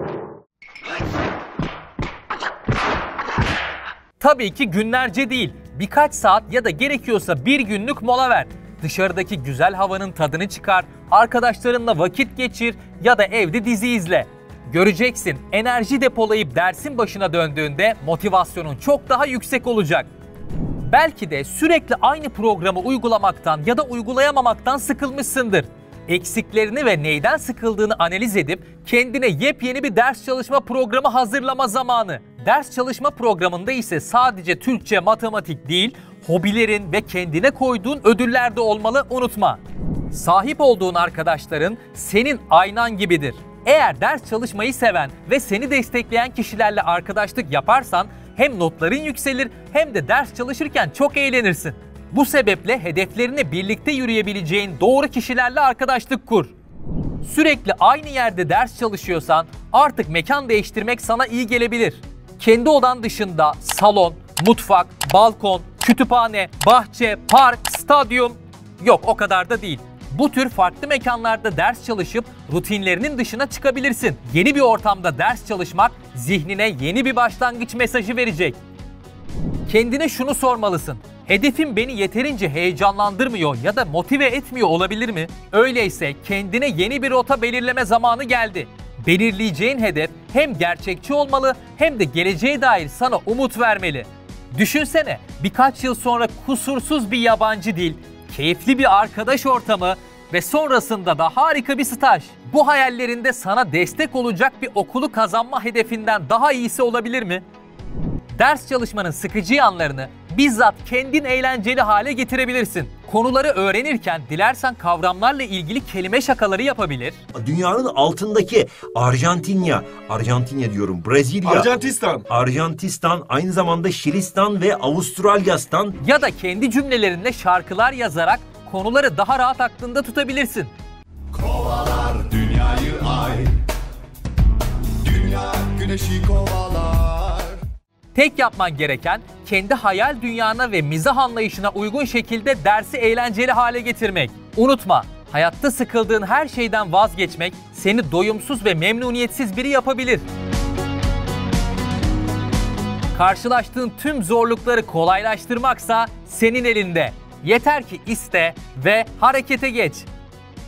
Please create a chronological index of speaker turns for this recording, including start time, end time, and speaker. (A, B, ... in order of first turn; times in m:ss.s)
0:04.2-0:20.1 A
0:20.8-0:56.5 A
0:57.2-1:18.6 A
1:19.7-1:47.4 A
1:48.3-1:57.2 A
1:57.3-2:01.7 B
2:01.4-2:02.2 C
2:02.2-2:06.0 B
2:06.0-2:10.7 A
2:11.3-2:13.6 C
2:15.0-2:17.6 C
2:18.1-2:30.2 A
2:33.1-2:40.1 A